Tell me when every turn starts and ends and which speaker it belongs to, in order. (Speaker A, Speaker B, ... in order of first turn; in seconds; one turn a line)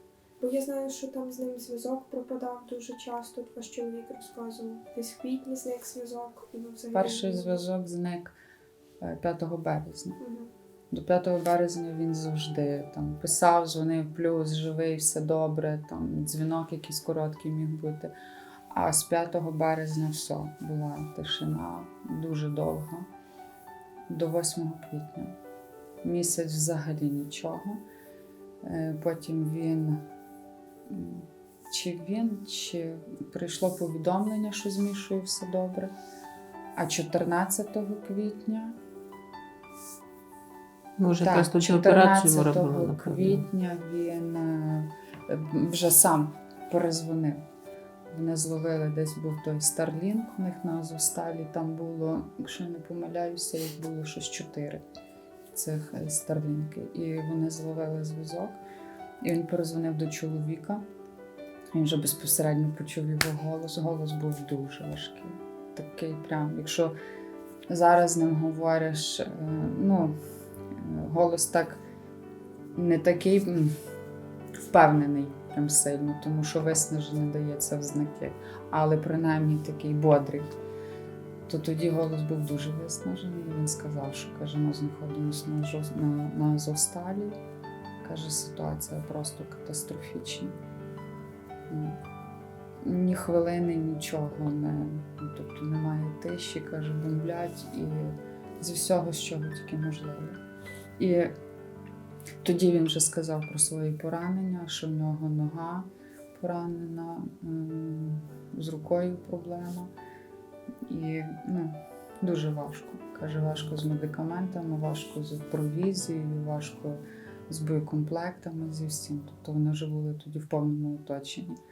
Speaker A: 0.4-7.6
Speaker B: 6.9-8.3
Speaker B: 9.0-10.2
Speaker A: 10.2-10.5
Speaker B: 10.9-18.1
Speaker B: 18.7-23.1
Speaker B: 24.1-25.3
Speaker B: 26.0-27.8
Speaker B: 28.6-30.1
Speaker B: 30.9-35.9
Speaker B: 36.8-38.8
Speaker C: 41.0-43.5
Speaker B: 41.2-47.4
Speaker B: 48.1-54.8
Speaker B: 55.5-58.6
Speaker B: 59.2-60.8
Speaker B: 61.7-67.0
Speaker B: 67.7-70.2
Speaker B: 70.8-71.8
Speaker B: 72.8-73.7
Speaker B: 74.7-80.5
Speaker B: 81.5-87.4
Speaker B: 88.0-90.5
Speaker B: 91.7-92.0
Speaker B: 92.8-100.4
Speaker B: 101.0-101.3
Speaker B: 102.4-109.9
Speaker B: 110.9-121.6